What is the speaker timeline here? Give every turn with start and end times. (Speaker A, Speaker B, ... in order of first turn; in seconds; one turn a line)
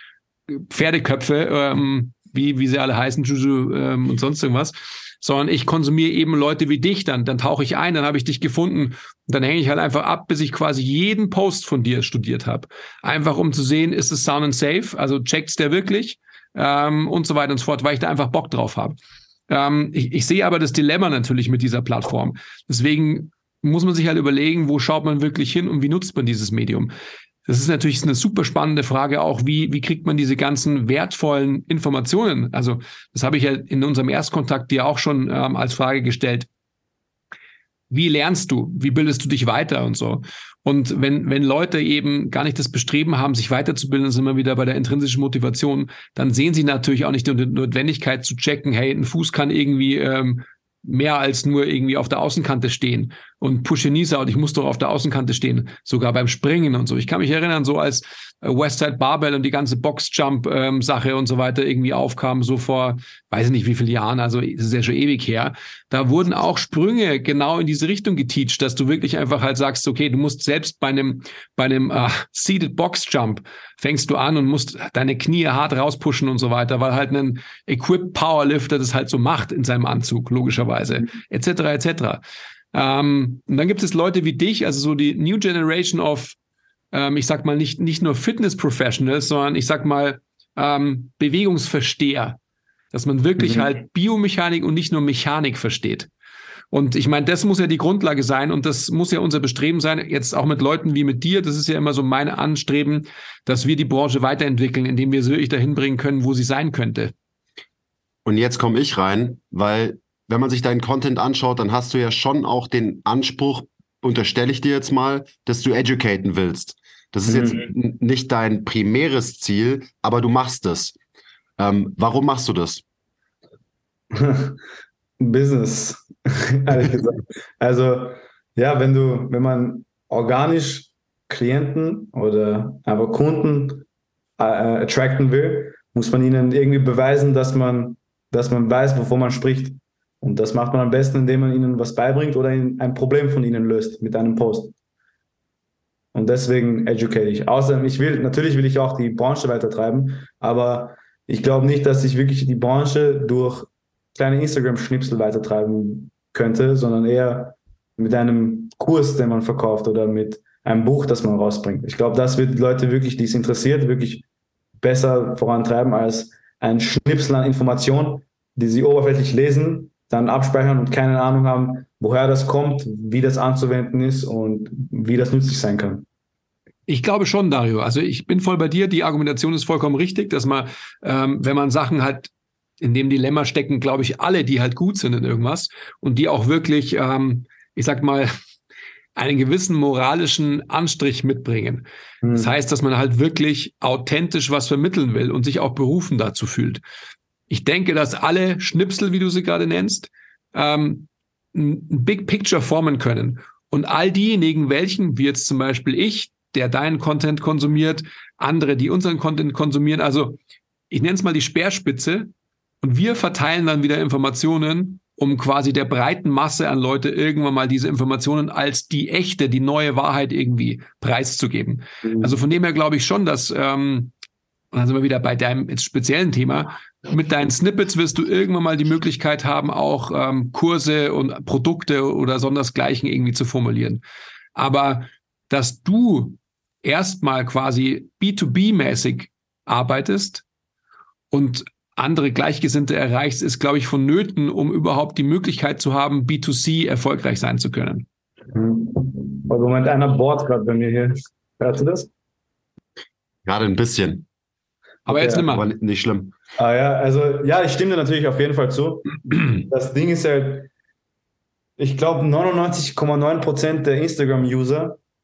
Speaker A: 0.5-19.0
Speaker A: 19.5-26.9
Speaker A: 27.5-36.5
Speaker A: 37.9-82.2
Speaker A: 82.7-86.4
Speaker A: 86.9-92.4
Speaker A: 92.9-96.1
Speaker B: 93.4-93.7
Speaker A: 96.7-107.1
Speaker C: 108.2-121.0
Speaker B: 117.3-117.7
Speaker C: 121.6-122.8
Speaker B: 124.1-124.6
Speaker B: 125.2-133.8
Speaker B: 134.4-144.7
Speaker B: 146.1-164.2
Speaker B: 164.8-176.1
Speaker A: 176.9-182.3
Speaker A: 182.8-188.3
Speaker A: 189.2-196.8
Speaker B: 192.2-192.5
Speaker A: 197.5-210.4
Speaker A: 210.9-212.3
Speaker A: 212.8-224.1
Speaker B: 222.0-222.4
Speaker A: 224.7-234.0
Speaker A: 234.6-240.4
Speaker A: 241.3-248.1
Speaker B: 248.5-252.1
Speaker C: 253.4-254.3
Speaker A: 255.1-255.7
Speaker B: 255.1-255.5
Speaker C: 255.3-256.4
Speaker B: 256.6-260.7
Speaker B: 261.8-265.0